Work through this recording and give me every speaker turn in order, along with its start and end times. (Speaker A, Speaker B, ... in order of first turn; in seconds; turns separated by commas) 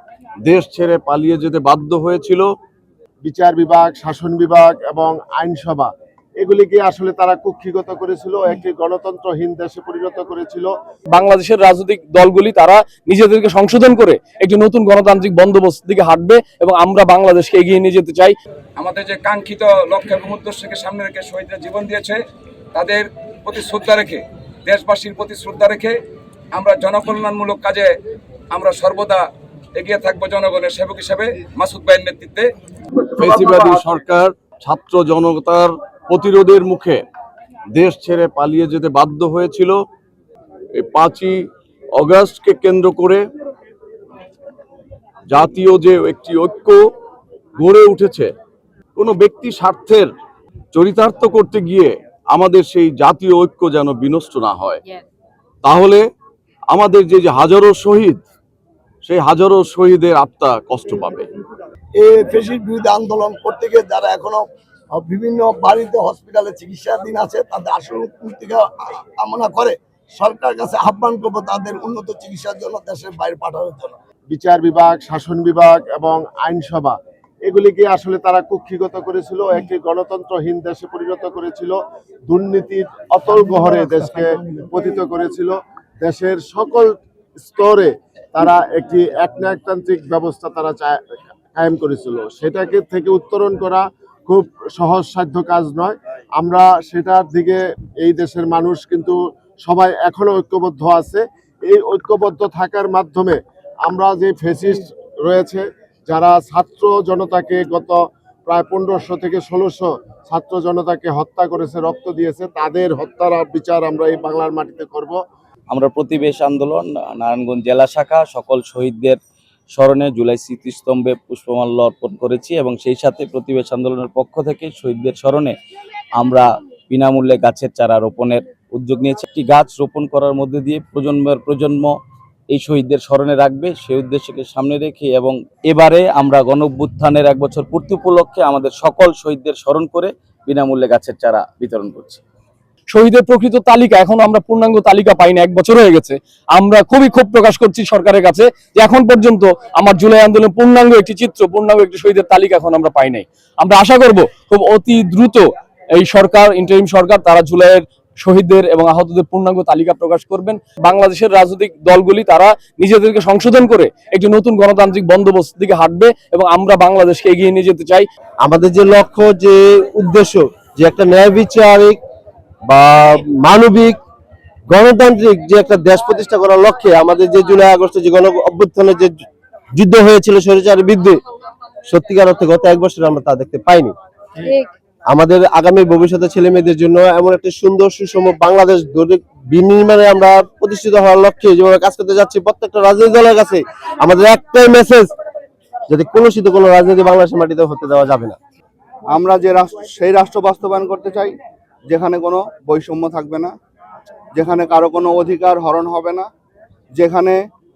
Speaker A: 0.5-2.5, Speaker B: 3.2-10.7, Speaker C: 11.1-18.4, Speaker D: 18.8-22.2, Speaker D: 22.7-26.0, Speaker D: 26.5-27.9, Speaker D: 28.5-32.5, Speaker A: 33.2-37.0, Speaker D: 33.2-33.8, Speaker A: 37.7-39.8, Speaker A: 40.7-41.4, Speaker A: 42.0-43.2, Speaker A: 45.3-46.8, Speaker A: 47.6-48.3, Speaker A: 49.0-50.1, Speaker A: 50.7-54.8, Speaker A: 55.6-56.0, Speaker A: 56.7-58.2, Speaker A: 59.0-61.3, Speaker E: 62.0-74.0, Speaker B: 74.3-81.8, Speaker B: 82.3-91.0, Speaker B: 91.5-115.2, Speaker F: 115.7-119.2, Speaker F: 119.7-125.5, Speaker F: 126.1-131.9, Speaker F: 132.5-142.2, Speaker C: 142.9-155.4, Speaker C: 156.0-168.1, Speaker G: 168.4-172.0, Speaker G: 172.7-174.0, Speaker G: 174.7-179.2, Speaker G: 179.8-181.2, Speaker G: 181.9-183.9, Speaker G: 185.1-195.1, Speaker G: 195.9-198.4, Speaker H: 199.1-203.5, Speaker H: 204.3-206.3, Speaker H: 206.9-207.4